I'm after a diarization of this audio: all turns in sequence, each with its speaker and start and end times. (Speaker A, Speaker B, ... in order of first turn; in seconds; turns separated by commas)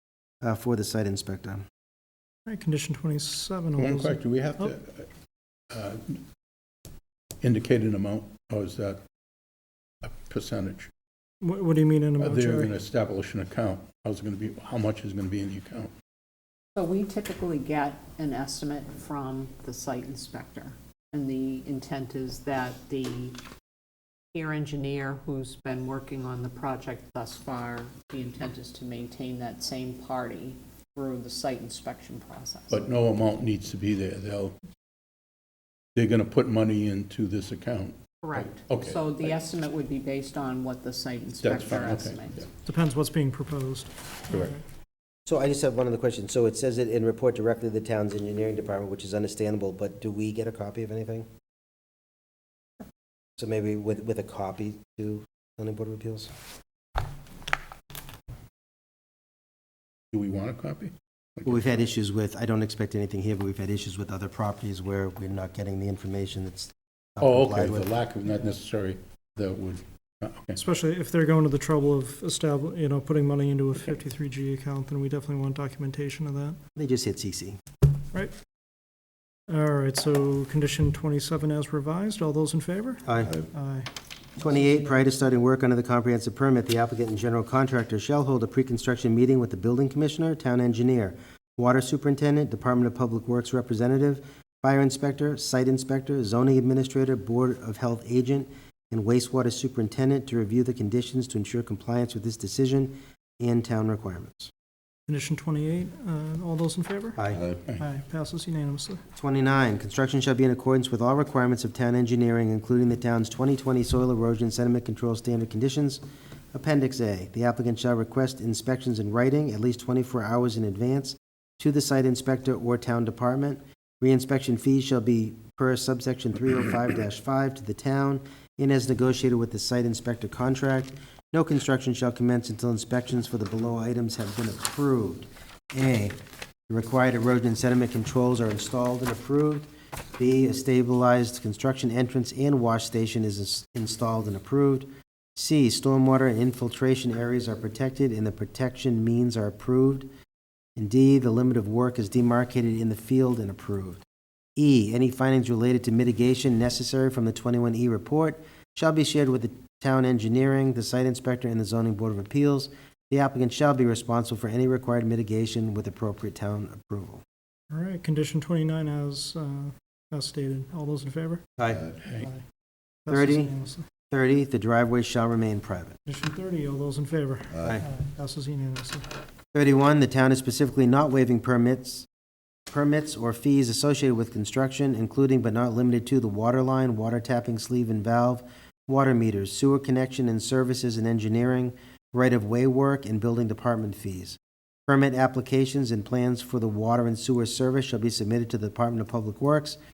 Speaker A: 0.4-1.6, Speaker B: 2.5-4.7, Speaker C: 3.8-5.1, Speaker C: 5.7-6.2, Speaker C: 7.4-9.0, Speaker C: 10.0-10.9, Speaker B: 11.4-12.7, Speaker C: 12.2-15.9, Speaker D: 16.7-23.4, Speaker D: 24.3-32.8, Speaker C: 32.7-34.5, Speaker C: 36.0-39.4, Speaker D: 38.2-42.5, Speaker C: 41.4-42.5, Speaker B: 42.6-44.6, Speaker C: 44.3-44.5, Speaker A: 45.3-51.3, Speaker A: 53.4-56.3, Speaker C: 60.1-61.5, Speaker A: 61.4-67.9, Speaker C: 67.2-70.6, Speaker B: 70.5-76.6, Speaker A: 76.8-77.6, Speaker B: 79.5-83.9, Speaker A: 83.0-83.3, Speaker A: 84.4-104.5, Speaker B: 105.1-107.2, Speaker A: 107.2-107.4, Speaker B: 107.8-109.0, Speaker A: 109.2-116.0, Speaker A: 116.5-136.2, Speaker A: 136.7-150.1, Speaker A: 150.8-154.0, Speaker A: 154.6-167.2, Speaker B: 167.7-171.4, Speaker A: 171.6-171.8, Speaker C: 172.0-172.3, Speaker B: 173.0-173.8, Speaker A: 173.1-173.5, Speaker A: 174.1-176.0, Speaker B: 176.0-179.0, Speaker A: 179.5-182.1, Speaker A: 182.7-199.8